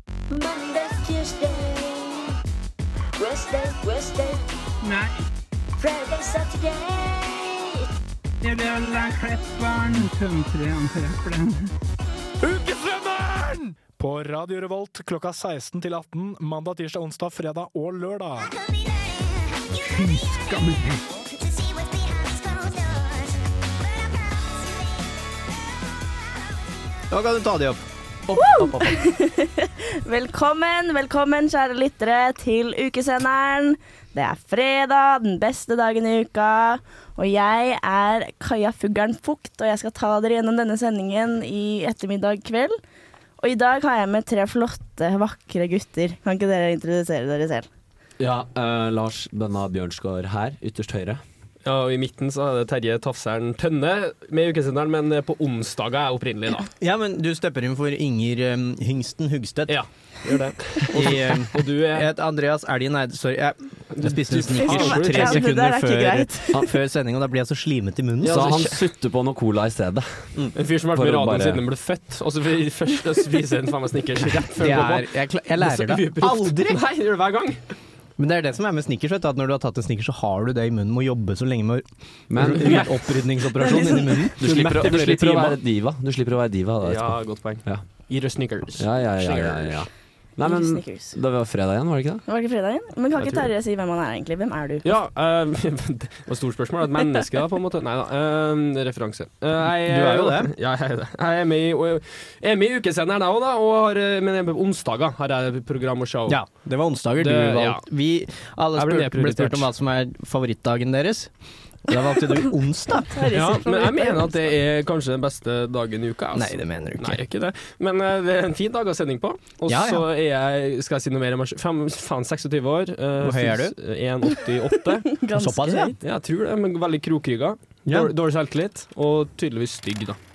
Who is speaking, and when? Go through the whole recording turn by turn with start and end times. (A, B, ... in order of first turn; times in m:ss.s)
0:00.3-0:02.4 A
0:03.2-0:04.4 A
0:04.8-0:05.2 B
0:05.8-0:07.9 A
0:08.4-0:11.7 B
0:12.4-0:18.5 C
0:18.4-0:20.4 A
0:19.9-0:21.0 B
0:21.2-0:25.2 A
0:27.1-0:29.0 D
0:28.3-0:42.8 E
0:43.4-0:47.6 E
0:48.2-0:51.2 F
0:51.6-0:56.7 G
0:56.8-0:59.8 D
0:59.7-1:02.1 G
1:00.9-1:08.8 D
1:03.9-1:05.5 G
1:04.6-1:06.6 E
1:08.2-1:10.3 F
1:10.6-1:17.6 G
1:10.9-1:11.6 F
1:14.6-1:16.8 D
1:18.2-1:24.4 D
1:22.3-1:22.9 F
1:22.6-1:22.9 G
1:23.6-1:24.3 E
1:24.4-1:27.8 F
1:24.4-1:25.6 G
1:26.8-1:29.8 G
1:28.8-1:32.2 F
1:30.4-1:31.2 E
1:32.3-1:34.8 E
1:33.2-1:33.5 G
1:34.8-1:46.4 G
1:39.8-1:40.5 D
1:46.3-1:51.3 D
1:47.2-1:47.8 G
1:48.7-1:49.7 G
1:51.8-1:53.2 D
1:53.0-1:54.4 E
1:53.3-2:05.1 G
1:56.3-1:57.2 D
1:59.7-2:00.0 D
2:03.2-2:03.7 D
2:05.2-2:06.0 E
2:05.4-2:05.9 D
2:06.0-2:10.2 G